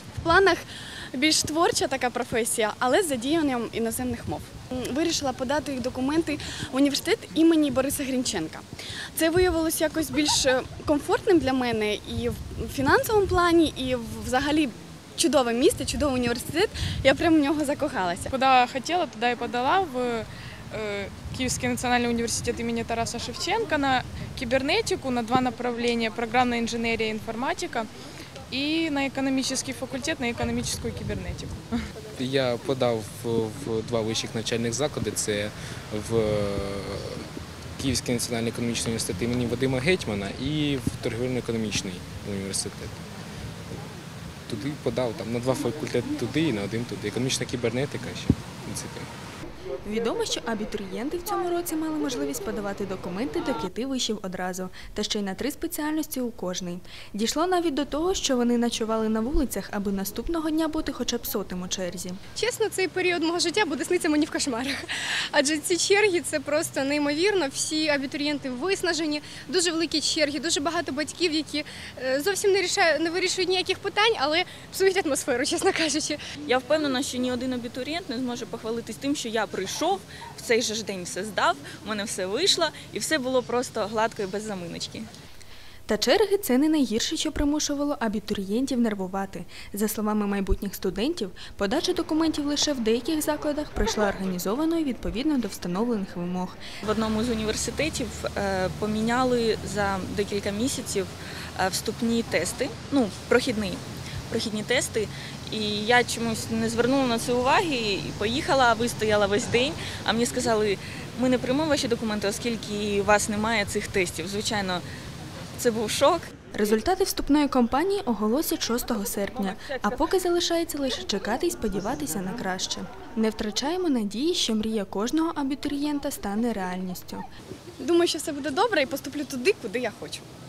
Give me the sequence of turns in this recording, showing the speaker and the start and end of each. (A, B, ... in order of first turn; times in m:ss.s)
0:00.2-0:18.3 A
0:18.3-0:27.9 B
0:28.5-0:31.8 B
0:32.2-0:43.0 C
0:44.5-0:49.1 C
0:49.8-1:02.2 D
1:02.4-1:16.2 E
1:16.4-1:25.1 F
1:25.9-1:36.6 D
1:36.8-1:54.8 F
1:55.6-1:56.3 F
1:56.5-2:07.2 D
1:59.6-1:59.8 F
2:07.8-2:10.2 A